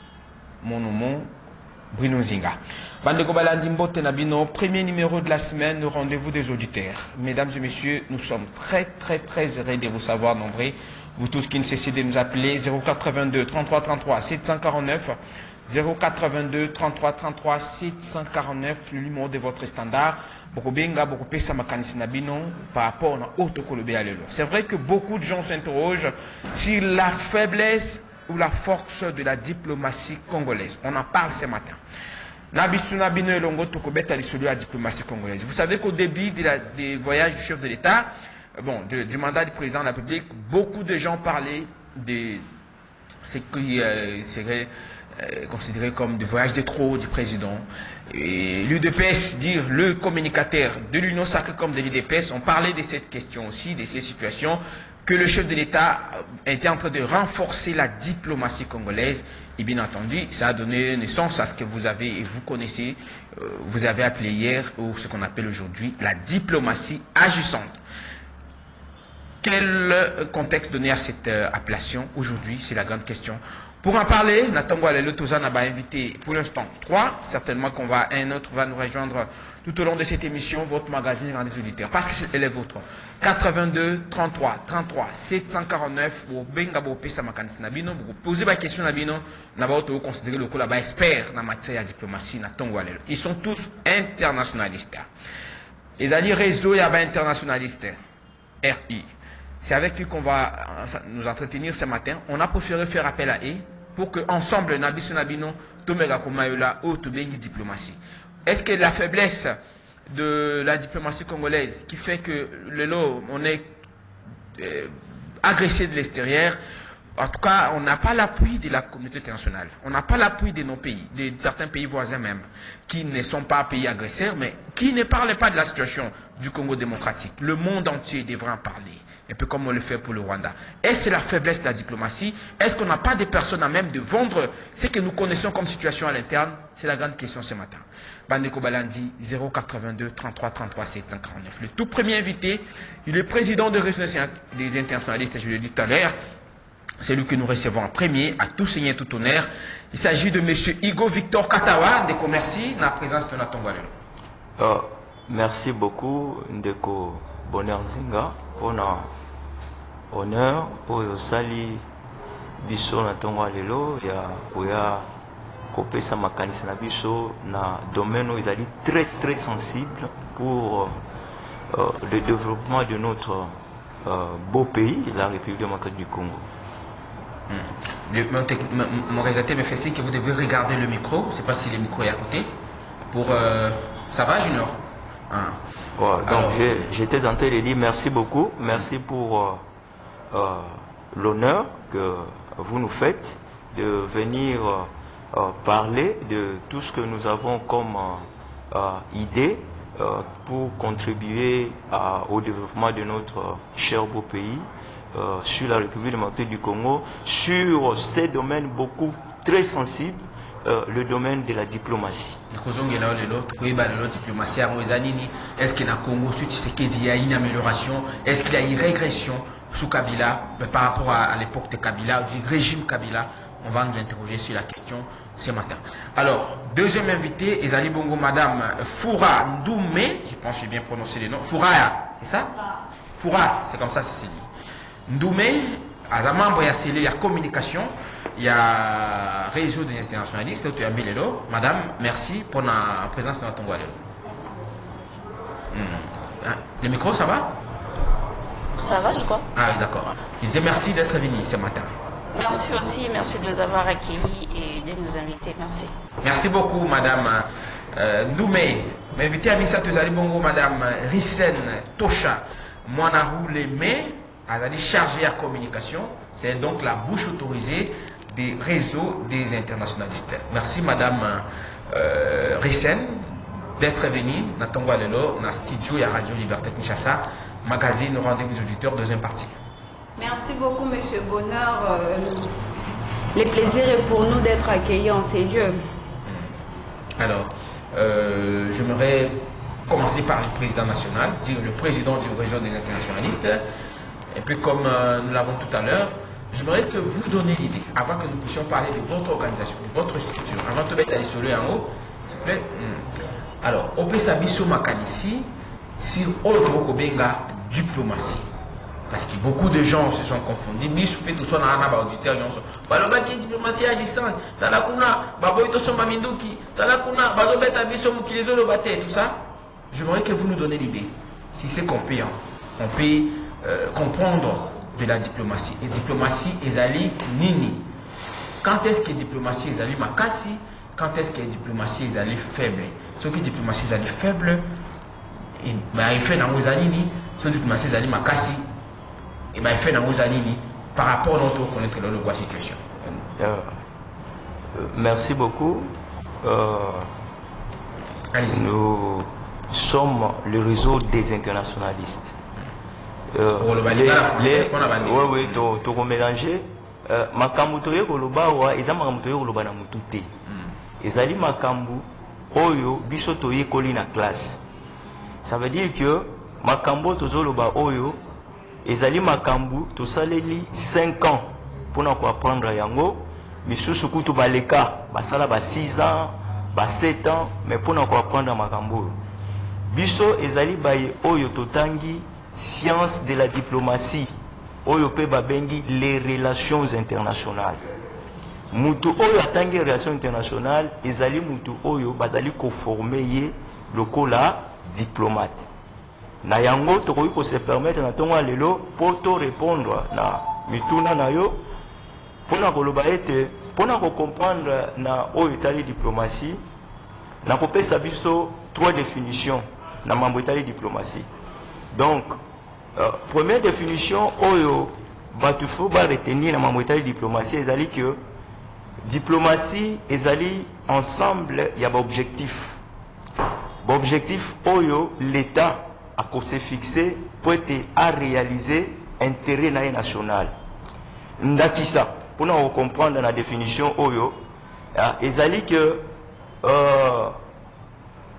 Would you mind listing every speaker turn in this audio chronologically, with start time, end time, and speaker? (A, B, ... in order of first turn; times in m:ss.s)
0:00.6-0:01.3 A
0:01.9-0:31.8 A
0:32.5-0:42.4 A
0:43.2-1:07.8 A
1:09.4-1:35.1 A
1:36.0-1:38.0 A
1:38.6-1:39.1 A
1:39.6-1:49.6 A
1:50.1-1:53.7 A
1:54.6-1:56.6 A
1:57.2-2:26.1 A
2:27.0-2:33.9 A
2:34.6-2:39.1 B
2:40.1-2:41.8 B
2:42.6-2:45.1 B
2:45.7-2:51.0 B
2:51.7-2:56.5 B
2:57.5-3:02.5 A
3:03.1-3:05.6 A
3:06.0-3:09.6 B
3:06.2-3:06.6 A
3:10.3-3:32.4 B
3:32.5-3:52.5 A
3:53.1-3:54.5 A
3:55.1-4:03.9 A
4:04.3-4:05.0 C
4:05.7-4:07.5 A
4:08.8-4:09.4 C
4:09.5-4:11.9 A
4:12.3-4:15.9 C
4:16.2-4:39.6 A
4:40.2-4:42.6 D
4:43.3-4:45.8 D
4:47.2-4:53.6 A
4:54.3-5:03.1 A
5:03.6-5:08.5 A
5:09.1-5:27.8 A
5:28.6-5:34.6 A
5:35.6-5:38.6 A
5:39.5-5:43.2 A
5:43.4-5:43.8 B
5:44.7-5:47.1 B
5:48.3-5:48.6 A
5:48.5-5:52.3 B
5:53.3-6:00.3 B
5:53.6-5:55.6 A
6:01.0-6:04.6 B
6:05.4-6:08.2 B
6:08.8-6:19.2 B
6:19.9-6:24.3 B
6:24.8-6:27.8 B
6:28.7-6:35.7 B
6:36.4-6:41.6 B
6:42.5-6:46.6 B
6:47.4-6:51.3 B
6:51.9-6:52.4 B
6:52.9-6:58.2 B
6:59.0-7:02.8 B
7:03.8-7:10.5 B
7:11.4-7:14.4 B
7:14.9-7:16.1 B
7:16.6-7:17.4 B